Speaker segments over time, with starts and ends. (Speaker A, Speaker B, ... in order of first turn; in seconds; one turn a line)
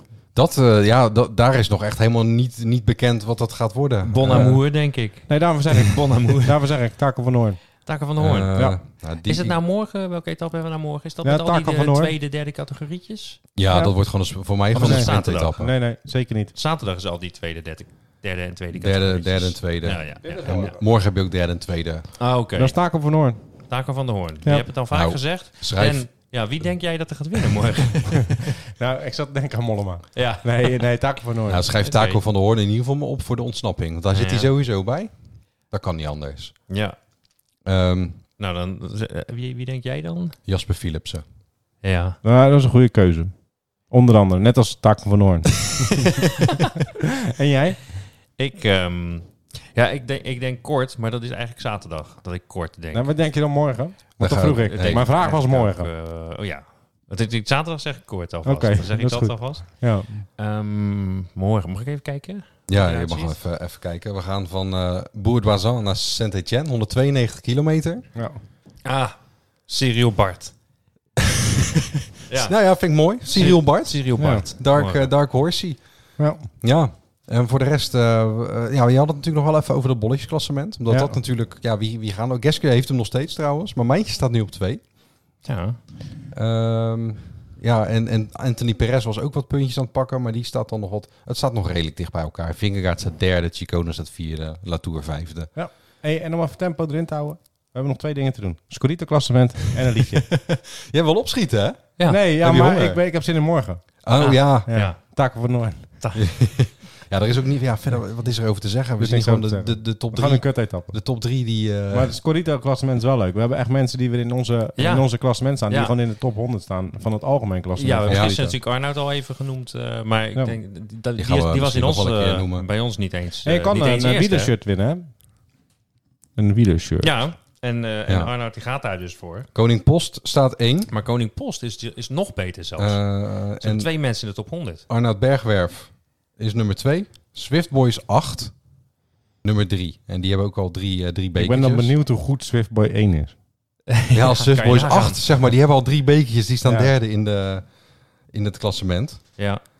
Speaker A: 0.3-4.6
Speaker B: 4.0-6.7
Speaker C: 4.3-4.6
Speaker C: 5.3-7.6
Speaker B: 7.8-8.5
Speaker A: 8.2-9.6
Speaker C: 8.5-8.8
Speaker B: 9.2-13.4
Speaker C: 11.2-12.1
Speaker A: 13.6-15.7
Speaker C: 13.7-14.0
Speaker B: 14.7-15.7
Speaker C: 14.7-16.5
Speaker B: 16.5-20.7
Speaker A: 18.8-22.1
Speaker C: 20.2-20.8
Speaker B: 22.2-22.9
Speaker C: 22.5-23.6
Speaker B: 23.7-28.4
Speaker A: 24.9-26.1
Speaker C: 28.8-31.7
Speaker B: 30.1-31.1
Speaker A: 31.5-35.1
Speaker B: 31.8-32.2
Speaker B: 34.1-34.5
Speaker A: 35.7-36.5
Speaker B: 36.7-37.0
Speaker A: 37.6-38.2
Speaker B: 38.4-40.4
Speaker A: 40.5-41.2
Speaker B: 41.8-42.2
Speaker C: 42.2-43.3
Speaker C: 43.9-46.1
Speaker C: 47.3-47.8
Speaker B: 48.4-53.1
Speaker C: 52.9-55.9
Speaker A: 54.2-55.1
Speaker B: 54.6-63.4
Speaker C: 58.4-60.2
Speaker A: 62.7-68.1
Speaker C: 68.1-68.4
Speaker B: 68.8-70.5
Speaker B: 72.3-72.5
Speaker A: 72.3-84.8
Speaker B: 73.3-75.1
Speaker C: 74.2-74.5
Speaker C: 76.2-76.5
Speaker C: 80.9-81.2
Speaker B: 85.4-85.8
Speaker A: 86.3-95.5
Speaker C: 95.5-100.2
Speaker A: 100.3-103.0
Speaker C: 102.1-103.8
Speaker A: 104.0-104.7
Speaker B: 104.2-105.2
Speaker C: 104.7-105.9
Speaker A: 106.2-112.2
Speaker C: 109.0-110.9
Speaker C: 111.9-118.6
Speaker B: 114.8-115.9
Speaker B: 117.8-124.5
Speaker A: 118.1-118.3
Speaker A: 121.2-122.6
Speaker C: 123.4-125.1
Speaker C: 126.3-127.2
Speaker B: 127.0-129.5
Speaker A: 128.1-128.3
Speaker A: 129.5-130.9
Speaker B: 130.9-134.8
Speaker A: 132.8-133.9
Speaker A: 134.9-138.5
Speaker A: 139.4-141.9
Speaker C: 141.4-143.4
Speaker B: 143.9-145.2
Speaker A: 144.1-147.7
Speaker C: 146.6-146.9
Speaker A: 148.3-149.3